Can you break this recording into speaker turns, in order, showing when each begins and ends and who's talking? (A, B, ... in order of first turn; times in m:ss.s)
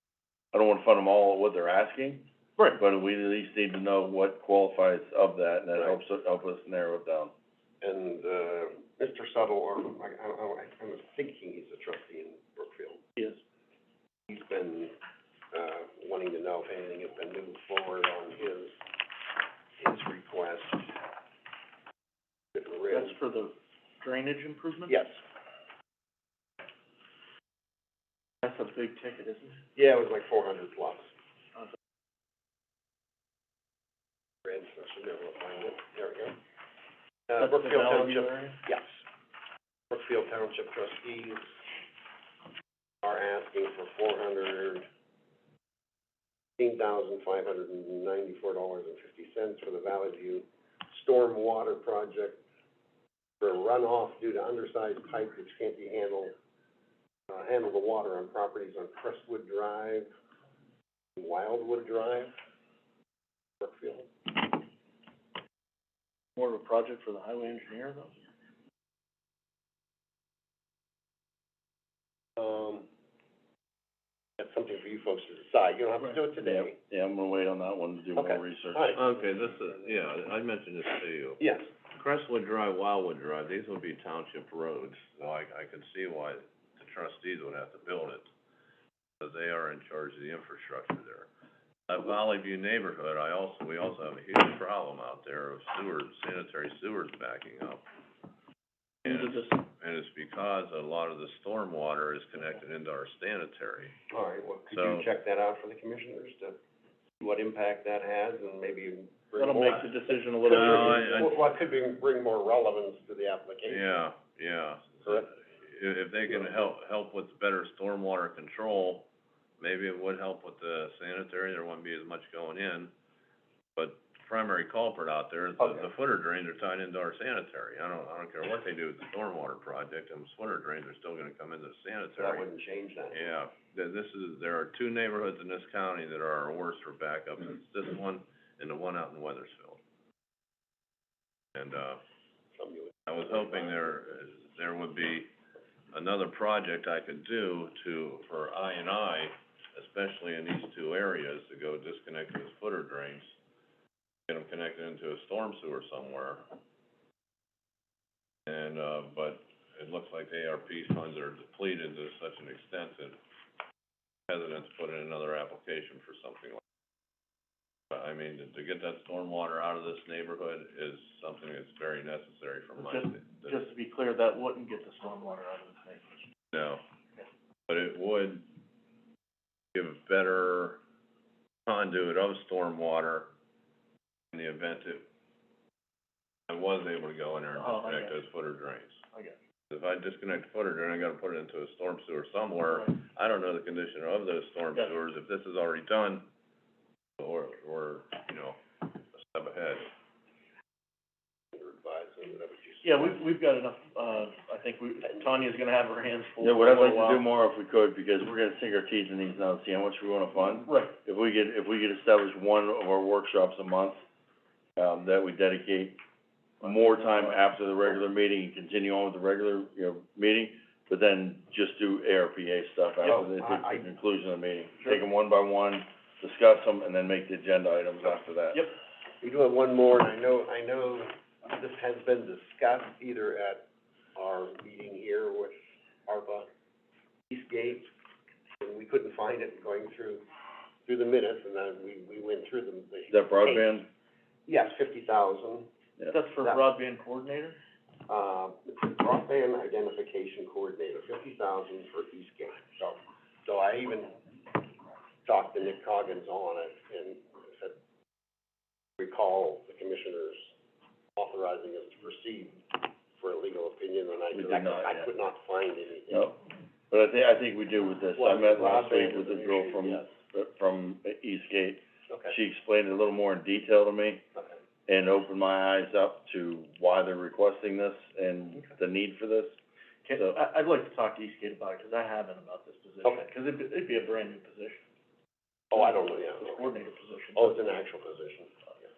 0:00.5-0:07.3 A
0:07.8-0:13.0 B
0:14.3-0:15.0 B
0:15.5-0:18.8 B
0:19.8-0:20.9 B
0:22.5-0:23.2 B
0:22.9-0:25.0 C
0:24.9-0:25.2 B
0:28.4-0:29.6 C
0:29.8-0:31.1 B
0:34.4-0:36.4 B
0:37.3-0:39.0 B
0:37.4-0:38.6 C
0:39.9-0:41.4 B
0:43.0-0:44.9 B
0:46.6-0:52.4 B
0:53.4-0:56.3 B
0:57.3-1:00.1 B
1:01.2-1:02.3 B
1:03.6-1:04.5 B
1:06.4-1:08.2 C
1:12.4-1:12.9 B
1:14.4-1:16.8 B
1:16.4-1:19.0 A
1:18.2-1:19.8 B
1:18.9-1:21.4 D
1:21.4-1:21.7 B
1:21.9-1:28.2 D
1:29.2-1:31.3 D
1:31.9-1:37.8 D
1:39.0-1:44.0 D
1:39.0-1:39.6 C
1:44.1-1:46.6 B
1:44.7-1:45.1 D
1:47.2-1:54.0 B
1:49.4-1:51.4 C
1:50.4-1:51.3 D
1:53.7-1:59.1 D
1:55.0-1:55.3 B
1:56.3-1:56.6 B
1:59.6-2:02.9 D
2:03.8-2:12.4 D
2:05.6-2:05.9 B
2:12.2-2:13.2 B
2:13.1-2:19.8 D
2:21.5-2:22.0 D
2:22.6-2:23.9 B
2:23.1-2:25.3 D
2:25.9-2:33.3 D
2:34.3-2:36.5 D
2:38.5-2:43.2 D
2:44.3-2:46.6 D
2:47.9-2:53.6 D
2:52.8-2:56.2 C
2:56.5-2:56.8 D
2:57.7-2:58.5 D
2:59.7-3:00.8 D
3:01.7-3:03.3 D
3:04.3-3:05.0 D
3:06.5-3:09.0 D
3:07.6-3:08.2 C
3:09.7-3:16.3 D
3:12.7-3:13.0 C
3:17.2-3:19.9 D
3:21.5-3:23.2 B
3:22.8-3:27.2 C
3:26.4-3:34.0 A
3:30.6-3:31.0 C
3:34.8-3:36.0 A
3:36.6-3:37.4 C
3:36.6-3:48.7 A
3:43.0-3:43.9 B
3:44.8-3:45.0 C
3:49.2-3:56.5 B
3:57.3-3:57.9 B
3:58.6-4:00.2 B
4:00.8-4:03.8 B
4:03.1-4:03.9 A
4:04.4-4:05.7 B
4:06.1-4:07.6 C
4:08.1-4:14.2 B
4:15.2-4:17.8 B
4:19.0-4:20.5 B
4:21.2-4:26.3 B
4:24.3-4:25.1 A
4:26.1-4:34.2 A
4:28.2-4:28.4 C
4:28.2-4:30.0 B
4:34.9-4:39.6 A
4:40.0-4:44.8 C
4:43.0-4:43.3 B
4:45.7-4:46.8 B
4:45.7-4:47.8 C
4:47.3-4:48.5 B